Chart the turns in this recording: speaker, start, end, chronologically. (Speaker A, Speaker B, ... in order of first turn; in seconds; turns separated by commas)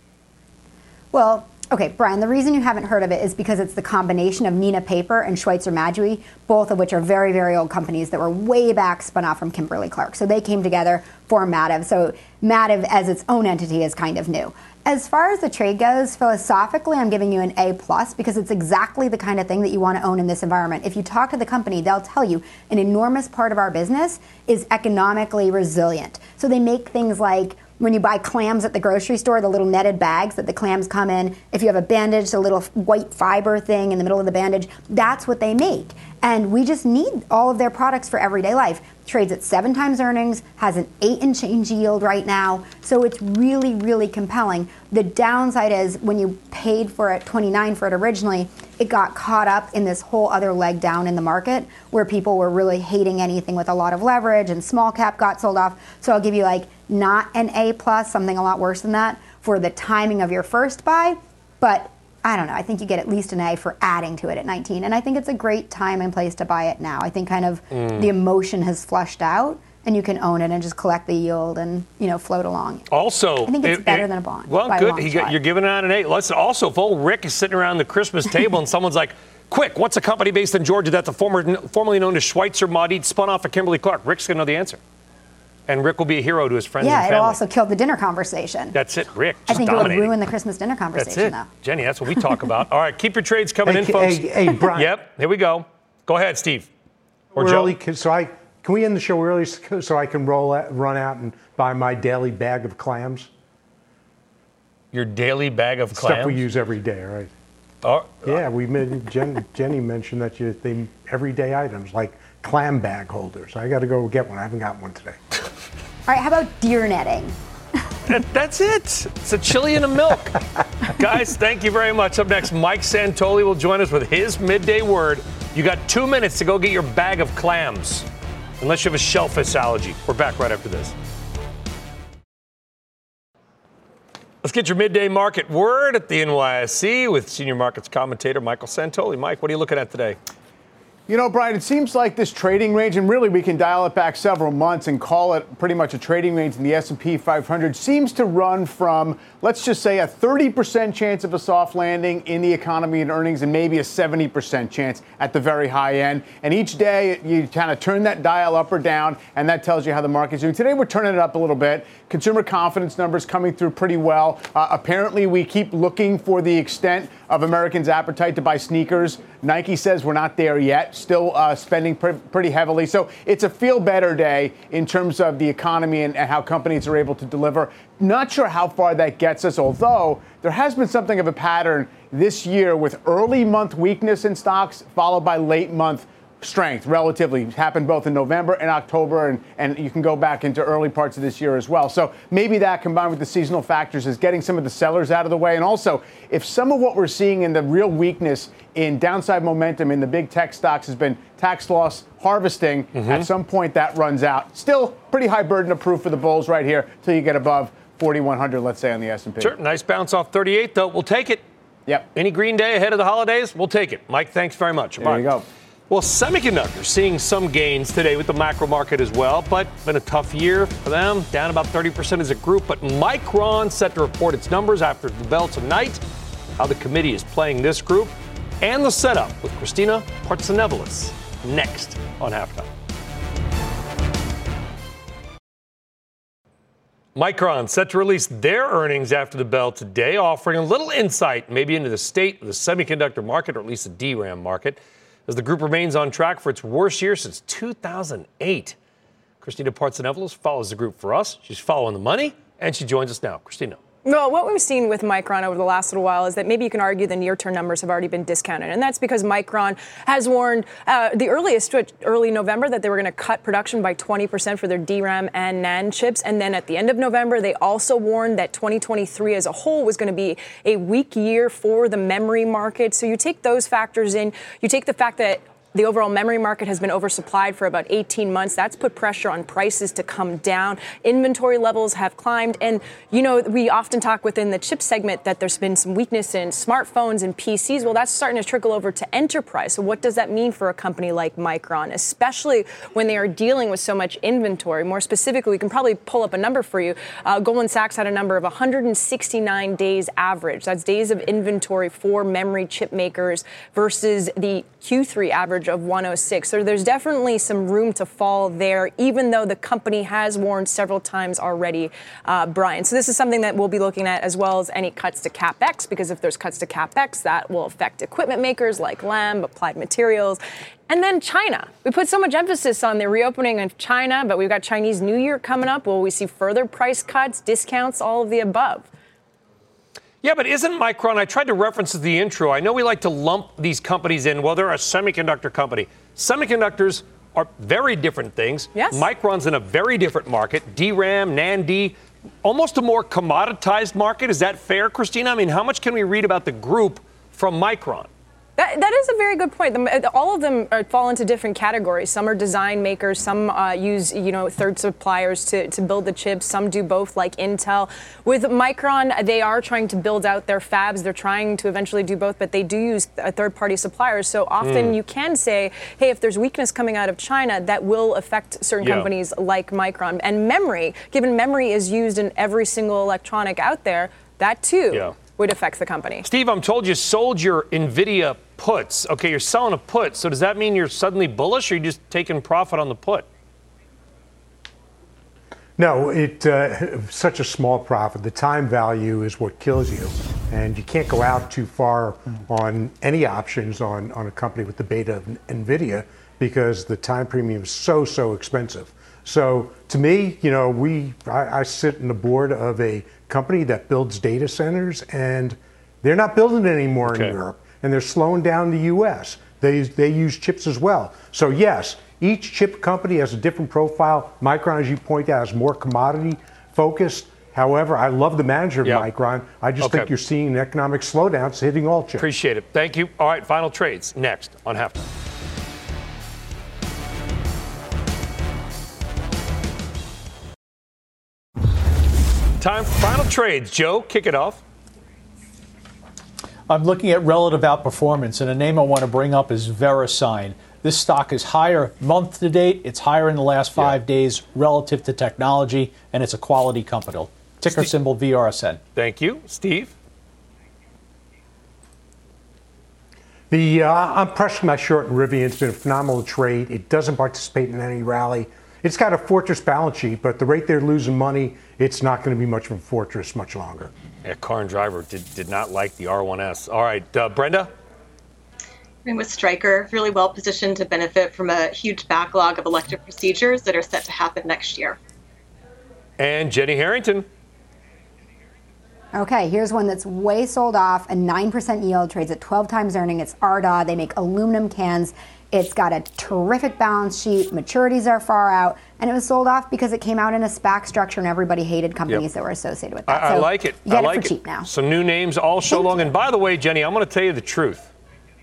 Speaker A: 1.1-72.9, Speaker B: 67.7-68.1, Speaker B: 72.9-84.8, Speaker A: 73.5-75.4, Speaker B: 85.7-87.4, Speaker A: 86.8-88.8, Speaker B: 88.7-90.2, Speaker A: 89.5-91.5, Speaker B: 90.9-96.7, Speaker C: 93.6-95.0, Speaker B: 97.4-97.8, Speaker C: 97.4-103.3, Speaker B: 104.9-106.4, Speaker C: 105.9-107.3, Speaker B: 107.8-108.4, Speaker C: 108.2-115.2, Speaker A: 116.1-117.4, Speaker B: 118.1-128.1, Speaker B: 128.6-130.9, Speaker B: 134.4-140.2, Speaker D: 141.1-209.6, Speaker B: 202.9-203.3, Speaker B: 209.4-211.4, Speaker B: 212.2-215.3, Speaker D: 215.0-215.4, Speaker B: 215.9-226.0, Speaker B: 226.6-232.7, Speaker B: 237.2-248.8, Speaker B: 249.4-253.8, Speaker E: 254.1-328.9, Speaker B: 330.2-348.1, Speaker E: 338.8-339.1, Speaker E: 348.6-376.3, Speaker B: 364.6-365.0, Speaker B: 368.8-369.1, Speaker B: 374.9-375.2, Speaker B: 376.2-383.3, Speaker C: 385.8-422.3, Speaker B: 407.1-407.4, Speaker B: 419.8-420.1, Speaker B: 422.2-425.1, Speaker B: 432.6-434.6, Speaker F: 436.7-448.8, Speaker B: 448.9-449.9, Speaker C: 453.5-463.9, Speaker B: 464.2-467.7, Speaker G: 469.1-475.0, Speaker B: 476.2-477.3, Speaker A: 479.1-494.7, Speaker B: 493.1-497.9, Speaker A: 495.7-496.1